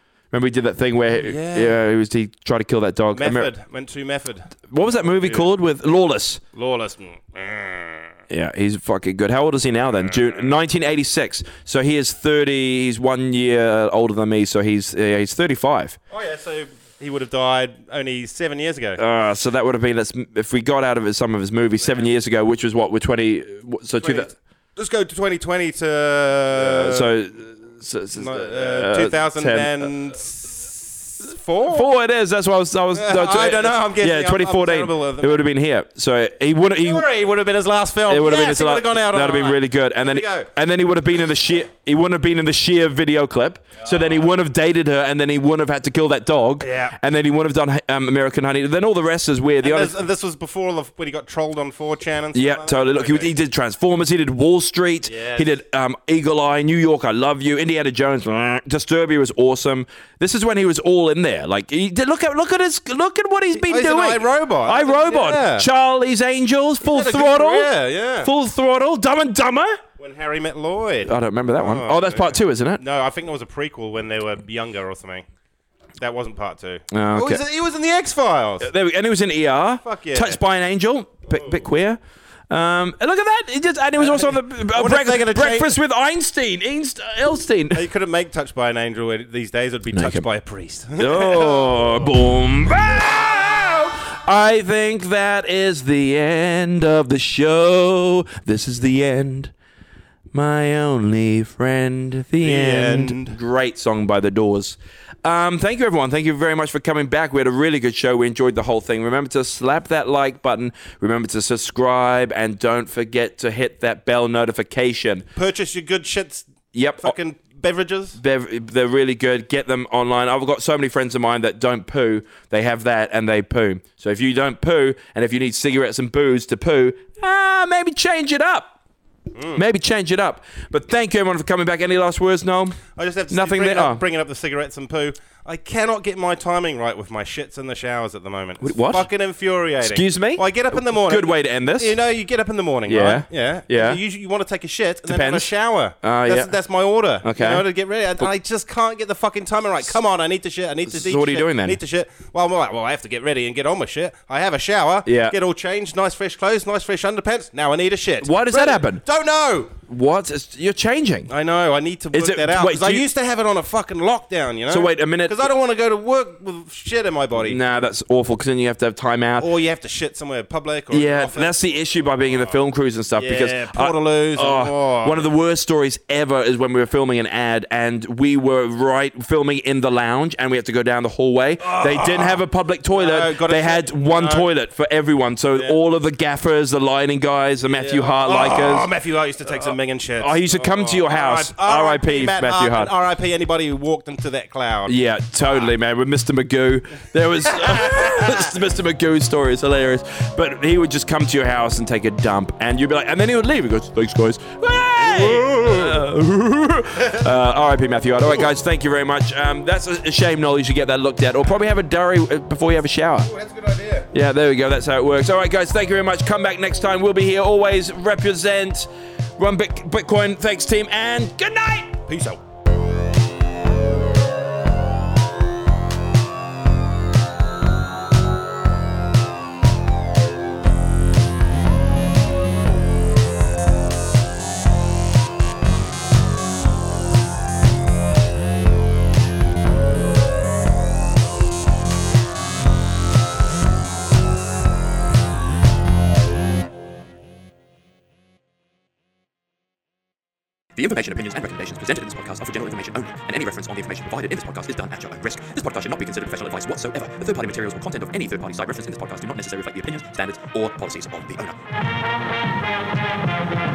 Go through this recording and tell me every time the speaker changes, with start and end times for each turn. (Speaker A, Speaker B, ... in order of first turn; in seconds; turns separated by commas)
Speaker A: 0.3-3.5, Speaker B: 1.1-1.8, Speaker B: 3.1-5.5, Speaker A: 4.7-6.4, Speaker B: 6.5-8.1, Speaker A: 8.3-16.0, Speaker B: 10.1-10.5, Speaker B: 16.1-19.0, Speaker A: 19.0-24.3, Speaker B: 24.0-27.1, Speaker A: 26.5-29.9, Speaker B: 28.1-31.9, Speaker A: 31.7-37.1, Speaker B: 32.9-35.5, Speaker B: 36.8-40.5, Speaker A: 38.1-50.0, Speaker B: 43.8-44.2, Speaker B: 46.6-46.9, Speaker B: 49.6-53.3, Speaker A: 52.3-69.8, Speaker B: 55.1-55.5, Speaker B: 63.5-65.7, Speaker B: 66.8-68.3, Speaker B: 70.0-75.2, Speaker A: 71.0-72.8, Speaker B: 76.0-78.7, Speaker A: 76.9-77.4, Speaker A: 78.6-87.9, Speaker B: 79.8-80.4, Speaker B: 81.3-81.6, Speaker B: 84.0-85.7, Speaker B: 87.7-92.1, Speaker A: 89.9-90.2, Speaker A: 91.0-99.5, Speaker A: 100.3-115.2, Speaker B: 102.4-103.3, Speaker B: 115.3-118.2, Speaker A: 116.7-117.2, Speaker A: 118.2-128.7, Speaker B: 129.3-129.6, Speaker A: 129.6-134.0, Speaker B: 132.9-159.7, Speaker A: 138.6-139.1, Speaker A: 139.8-142.0, Speaker A: 142.9-144.0, Speaker A: 145.1-146.5, Speaker A: 147.2-147.7, Speaker A: 150.9-151.8, Speaker A: 155.0-155.4, Speaker A: 158.2-159.0, Speaker A: 159.9-161.3, Speaker B: 161.3-167.6, Speaker A: 162.1-163.1, Speaker A: 164.7-165.5, Speaker A: 167.4-169.5, Speaker B: 169.4-172.6, Speaker A: 170.9-188.9, Speaker B: 173.2-175.2, Speaker B: 181.6-184.5, Speaker B: 187.7-194.9, Speaker A: 189.5-192.9, Speaker A: 194.8-213.3, Speaker B: 197.5-198.5, Speaker B: 204.8-206.0, Speaker B: 207.0-207.3, Speaker B: 208.2-208.5, Speaker B: 213.2-214.1, Speaker A: 214.1-222.0, Speaker B: 222.1-222.4, Speaker C: 250.8-261.6